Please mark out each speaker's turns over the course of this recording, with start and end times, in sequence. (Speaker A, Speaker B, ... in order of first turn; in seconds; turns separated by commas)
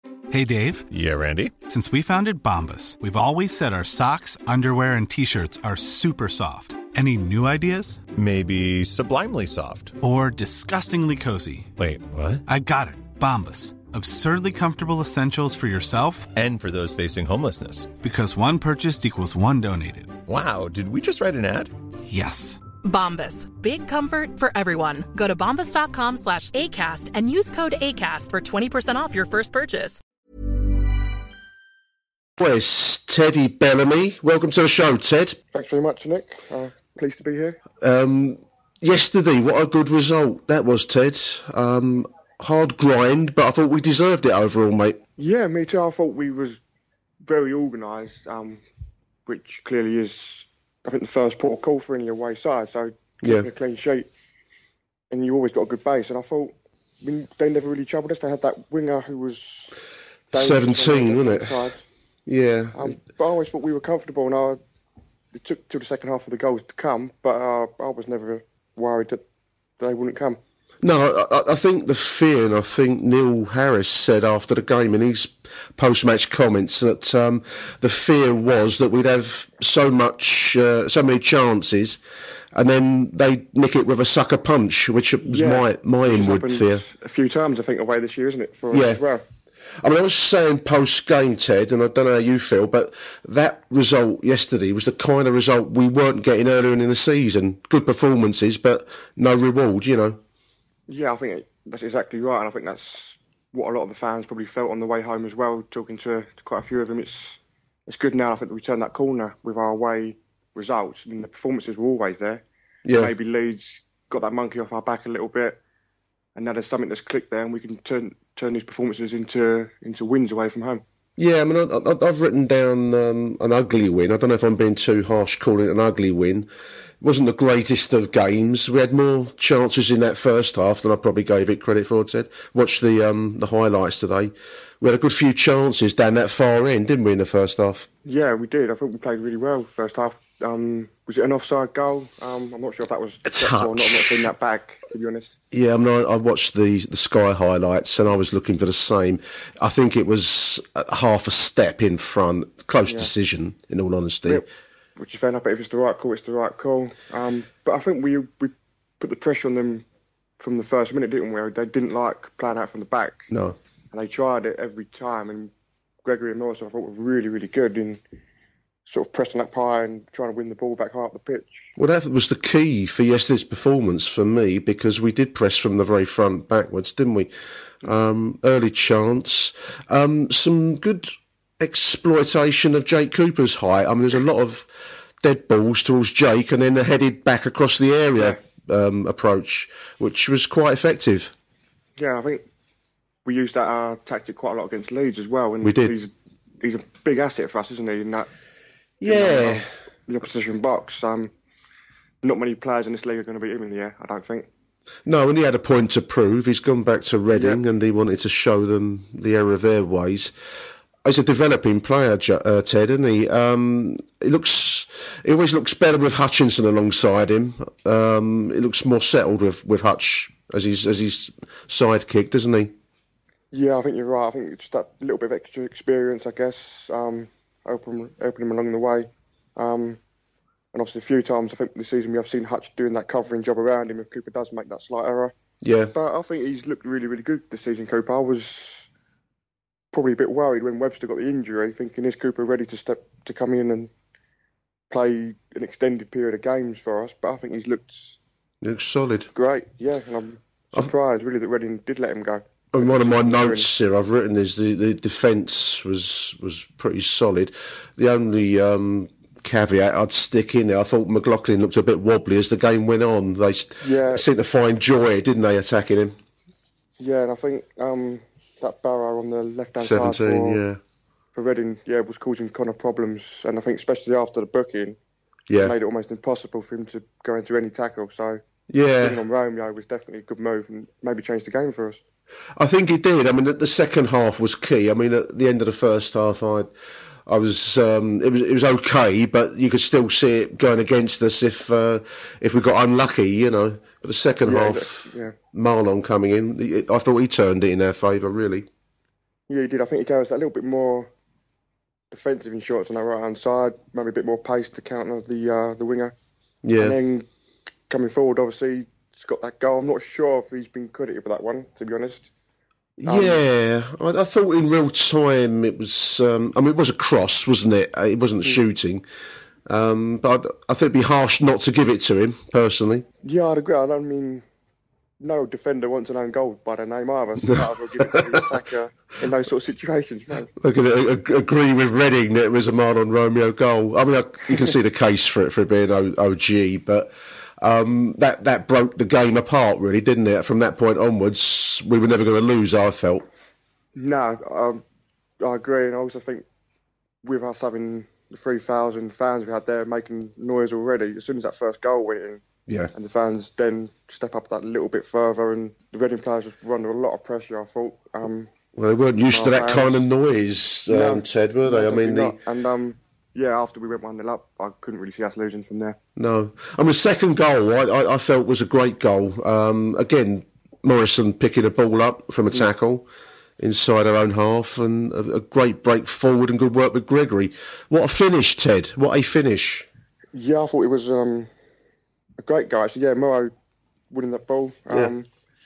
Speaker A: 0.3-0.9, Speaker B: 0.9-1.6, Speaker A: 1.6-8.1, Speaker B: 8.1-9.9, Speaker A: 10.0-11.7, Speaker B: 11.8-12.4, Speaker A: 12.5-16.3, Speaker B: 16.3-17.9, Speaker A: 18.0-20.2, Speaker B: 20.2-21.7, Speaker A: 22.1-22.6, Speaker C: 22.8-30.0, Speaker D: 32.4-35.4, Speaker E: 35.5-37.6, Speaker D: 37.8-45.0, Speaker E: 45.2-46.6, Speaker E: 47.2-48.6, Speaker E: 49.3-54.1, Speaker E: 55.1-59.7, Speaker D: 60.3-61.6, Speaker E: 60.3-61.9, Speaker D: 62.3-63.0, Speaker E: 62.8-64.6, Speaker E: 65.3-69.2, Speaker E: 69.8-70.4, Speaker D: 70.8-82.0, Speaker D: 82.5-86.8, Speaker E: 85.2-89.2, Speaker D: 88.7-89.0, Speaker D: 89.8-100.2, Speaker E: 100.9-115.6, Speaker D: 112.8-113.1, Speaker E: 116.4-120.8, Speaker D: 121.2-126.5, Speaker D: 127.0-137.9, Speaker E: 138.1-145.3, Speaker D: 143.2-144.3, Speaker D: 145.5-154.4, Speaker E: 152.9-153.1, Speaker E: 155.0-159.8, Speaker E: 160.4-163.3, Speaker D: 163.3-163.6, Speaker E: 163.9-165.5, Speaker E: 166.0-168.0, Speaker E: 168.9-171.7, Speaker D: 171.8-177.3, Speaker D: 177.8-184.7, Speaker D: 185.2-191.3, Speaker E: 192.0-192.4, Speaker E: 193.2-198.3, Speaker D: 195.6-195.9, Speaker D: 199.0-199.7, Speaker E: 199.0-201.3, Speaker E: 202.2-204.5, Speaker D: 205.1-210.3, Speaker E: 207.3-207.6, Speaker D: 211.0-222.7, Speaker E: 223.5-230.0, Speaker E: 230.7-235.3, Speaker D: 235.6-235.9, Speaker E: 235.9-238.9, Speaker E: 239.9-243.9, Speaker E: 244.9-248.2, Speaker D: 248.6-249.3, Speaker E: 249.3-253.7, Speaker D: 252.7-266.2, Speaker E: 263.8-264.3, Speaker E: 267.0-270.6, Speaker D: 269.8-270.8, Speaker E: 271.4-275.0, Speaker D: 275.5-275.8, Speaker E: 275.6-278.4, Speaker D: 278.7-279.2, Speaker E: 279.0-282.0, Speaker D: 282.6-286.7, Speaker D: 287.3-298.7, Speaker E: 294.4-295.4, Speaker E: 299.5-301.1, Speaker E: 302.1-306.1, Speaker D: 306.6-307.0, Speaker E: 306.8-307.3, Speaker E: 307.9-312.3, Speaker D: 313.0-319.0, Speaker E: 313.1-313.4, Speaker D: 319.7-323.1, Speaker E: 323.2-324.4, Speaker E: 325.2-330.5, Speaker D: 327.5-328.4, Speaker D: 330.6-343.3, Speaker E: 344.0-344.8, Speaker E: 345.4-346.4, Speaker E: 347.2-352.4, Speaker D: 352.7-352.9, Speaker E: 352.9-358.5, Speaker D: 358.8-362.4, Speaker E: 359.3-360.0, Speaker E: 360.9-366.0, Speaker D: 366.2-373.1, Speaker D: 373.6-379.9, Speaker E: 380.3-381.5, Speaker E: 382.4-383.5, Speaker E: 384.1-385.3